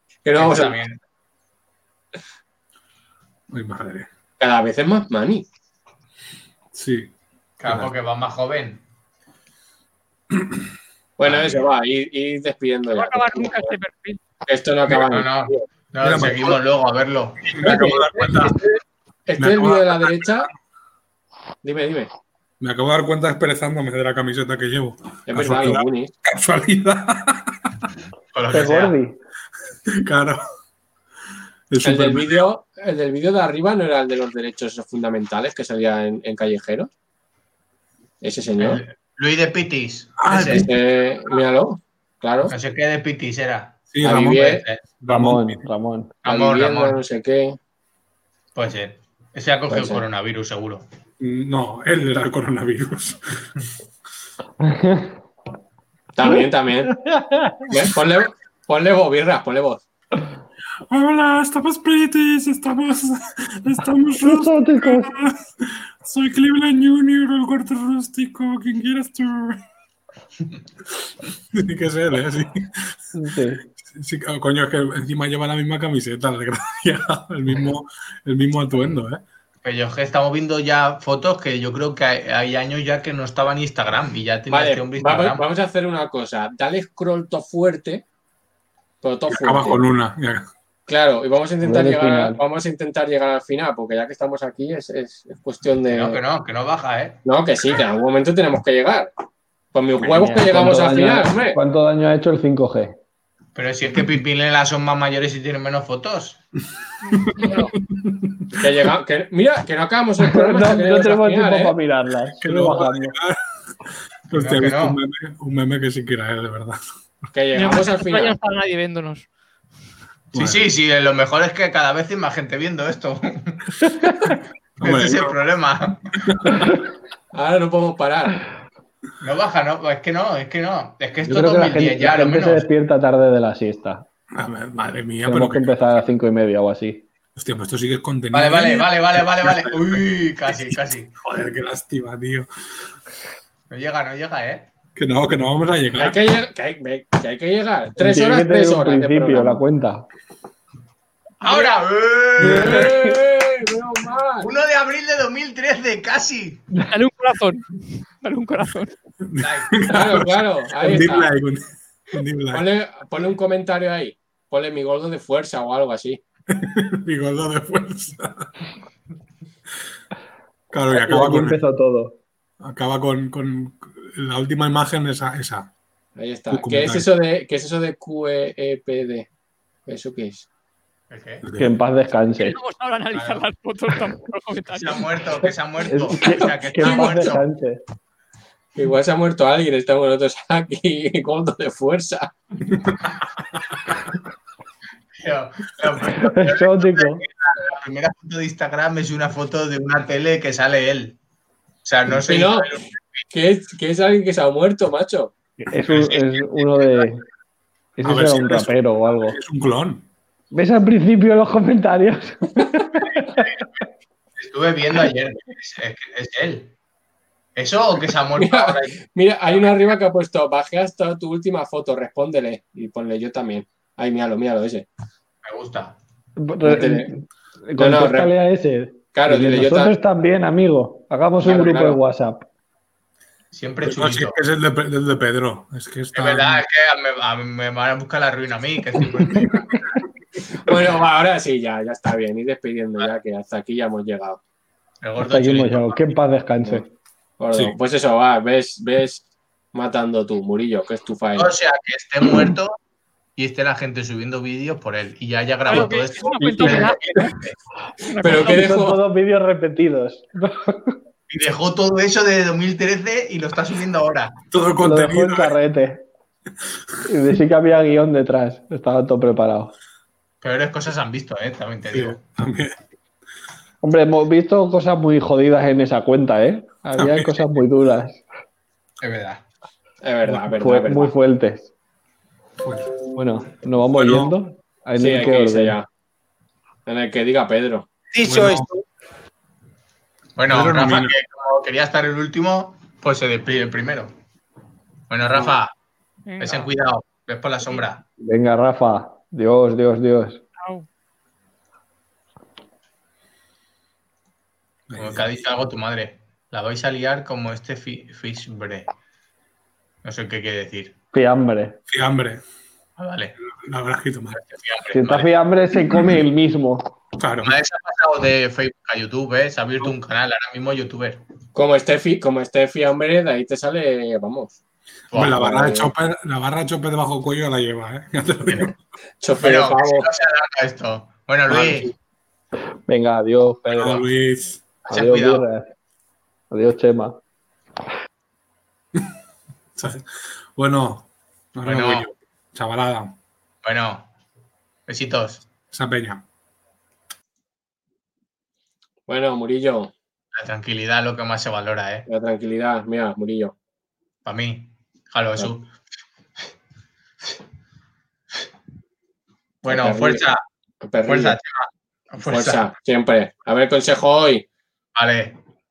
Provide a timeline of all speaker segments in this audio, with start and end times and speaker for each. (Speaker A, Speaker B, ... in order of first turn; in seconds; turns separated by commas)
Speaker A: 0.2-0.8, Speaker B: 0.4-1.0, Speaker C: 3.5-4.1, Speaker A: 4.4-5.5, Speaker C: 6.7-7.1, Speaker B: 7.6-8.8, Speaker C: 7.7-7.9, Speaker A: 11.2-13.7, Speaker B: 11.3-11.6, Speaker D: 12.9-14.2, Speaker A: 14.5-15.6, Speaker B: 15.0-17.7, Speaker C: 16.0-16.6, Speaker C: 17.5-18.6, Speaker A: 17.6-18.6, Speaker A: 19.3-20.5, Speaker C: 19.4-20.5, Speaker A: 21.6-22.1, Speaker C: 22.6-27.7, Speaker A: 25.3-26.1, Speaker B: 28.3-29.0, Speaker E: 28.5-29.2, Speaker C: 29.9-30.4, Speaker C: 31.7-32.4, Speaker A: 31.8-36.9, Speaker A: 38.2-38.8, Speaker B: 38.6-40.7, Speaker C: 40.2-40.7, Speaker A: 40.3-42.5, Speaker B: 42.5-45.0, Speaker C: 43.9-44.5, Speaker A: 44.0-44.6, Speaker C: 45.0-45.7, Speaker E: 45.1-46.1, Speaker B: 46.2-47.0, Speaker A: 46.2-47.6, Speaker B: 48.5-50.9, Speaker A: 49.7-50.0, Speaker C: 51.2-53.2, Speaker E: 54.6-55.1, Speaker A: 56.2-56.9, Speaker E: 56.9-57.7, Speaker A: 57.7-59.8, Speaker C: 60.9-69.6, Speaker E: 64.2-65.1, Speaker C: 71.5-72.9, Speaker E: 73.1-73.6, Speaker C: 73.8-79.2, Speaker B: 79.6-85.4, Speaker A: 84.5-88.0, Speaker A: 89.0-89.8, Speaker C: 89.3-90.5, Speaker A: 90.9-96.2, Speaker E: 91.6-92.4, Speaker B: 95.9-97.2, Speaker A: 97.2-99.1, Speaker A: 99.7-101.6, Speaker E: 100.0-103.0, Speaker B: 103.5-106.4, Speaker D: 107.0-107.7, Speaker C: 107.3-108.6, Speaker A: 108.6-111.8, Speaker E: 110.2-113.1, Speaker C: 112.4-113.4, Speaker C: 114.3-116.8, Speaker B: 114.3-115.0, Speaker A: 117.3-118.4, Speaker D: 117.5-119.3, Speaker C: 120.3-120.6, Speaker B: 120.3-123.6, Speaker B: 124.8-126.0, Speaker C: 124.8-125.3, Speaker C: 126.3-126.7, Speaker A: 127.3-128.4, Speaker B: 129.2-132.7, Speaker E: 131.3-134.1, Speaker C: 134.3-135.7, Speaker E: 135.2-137.0, Speaker C: 137.3-142.5, Speaker B: 138.3-141.1, Speaker B: 143.7-144.7, Speaker C: 145.0-146.2, Speaker A: 146.0-149.6, Speaker E: 148.0-150.1, Speaker B: 151.4-153.0, Speaker A: 152.4-154.5, Speaker B: 154.4-156.6, Speaker D: 156.8-157.7, Speaker D: 158.2-158.9, Speaker C: 159.3-162.6, Speaker B: 159.4-159.8, Speaker A: 159.9-161.3, Speaker A: 162.5-166.2, Speaker C: 166.5-168.5, Speaker C: 170.7-171.6, Speaker E: 170.9-172.2, Speaker C: 172.6-175.7, Speaker A: 176.2-179.3, Speaker C: 176.5-177.1, Speaker A: 179.9-180.5, Speaker B: 181.1-181.4, Speaker C: 181.4-181.8, Speaker E: 181.6-182.6, Speaker D: 182.4-185.0, Speaker B: 183.1-183.4, Speaker B: 184.8-187.4, Speaker E: 185.9-187.8, Speaker A: 188.8-192.3, Speaker B: 195.1-201.2, Speaker E: 196.2-197.2, Speaker B: 201.8-203.2, Speaker A: 202.2-202.7, Speaker A: 203.3-205.3, Speaker E: 205.6-207.2, Speaker B: 205.9-207.1, Speaker E: 208.0-209.4, Speaker C: 208.0-210.1, Speaker E: 210.5-213.5, Speaker B: 214.4-216.7, Speaker B: 217.6-219.0, Speaker A: 218.4-224.9, Speaker B: 219.5-219.9, Speaker B: 225.4-226.0, Speaker E: 226.4-232.5, Speaker A: 226.6-227.1, Speaker A: 227.8-228.3, Speaker A: 229.2-229.9, Speaker A: 231.4-232.0, Speaker B: 233.5-234.4, Speaker C: 233.8-236.6, Speaker B: 236.1-239.8, Speaker A: 240.7-244.4, Speaker B: 245.0-246.2, Speaker E: 245.2-246.9, Speaker A: 247.4-251.5, Speaker C: 247.5-247.8, Speaker B: 251.3-252.8, Speaker B: 253.4-257.6, Speaker D: 255.7-257.4, Speaker E: 256.4-256.8, Speaker D: 258.1-258.8, Speaker A: 258.2-259.0, Speaker E: 258.3-261.0, Speaker B: 261.3-264.4, Speaker C: 264.5-265.6, Speaker E: 264.8-266.0, Speaker E: 267.1-269.7, Speaker B: 270.4-272.2, Speaker C: 271.9-272.8, Speaker E: 273.8-278.2, Speaker C: 277.0-277.3, Speaker B: 279.0-279.4, Speaker A: 280.0-281.1, Speaker E: 280.6-281.7, Speaker C: 282.6-283.0, Speaker E: 283.1-285.8, Speaker C: 283.9-284.3, Speaker A: 285.0-285.9, Speaker A: 286.9-287.9, Speaker B: 288.1-288.8, Speaker C: 288.2-288.7, Speaker B: 290.4-294.1, Speaker C: 290.5-291.1, Speaker B: 295.1-295.7, Speaker D: 296.3-296.7, Speaker B: 296.4-298.0, Speaker E: 298.2-300.4, Speaker D: 300.6-300.9, Speaker C: 304.9-305.3, Speaker B: 305.0-308.9, Speaker B: 310.0-310.9, Speaker E: 311.1-311.8, Speaker C: 311.9-312.4, Speaker B: 313.0-313.3, Speaker C: 313.5-314.4, Speaker B: 314.3-315.3, Speaker E: 314.9-316.9, Speaker C: 317.2-317.5, Speaker B: 317.4-321.2, Speaker A: 321.6-324.6, Speaker B: 325.1-325.4, Speaker C: 325.1-328.8, Speaker A: 325.4-325.9, Speaker B: 328.5-328.7, Speaker A: 329.2-330.1, Speaker B: 329.4-331.9, Speaker C: 331.5-331.9, Speaker E: 332.9-334.1, Speaker C: 333.7-334.6, Speaker B: 334.9-335.4, Speaker E: 334.9-335.7, Speaker E: 336.5-337.2, Speaker C: 339.8-343.1, Speaker B: 341.6-342.1, Speaker B: 343.6-344.1, Speaker B: 344.9-345.4, Speaker C: 345.7-346.2, Speaker A: 349.1-349.9, Speaker B: 350.3-352.1, Speaker A: 352.1-353.5, Speaker B: 354.2-355.7, Speaker B: 359.6-360.4, Speaker A: 359.7-360.2, Speaker A: 360.8-361.4, Speaker B: 361.1-362.7, Speaker A: 362.3-364.4, Speaker B: 364.9-365.4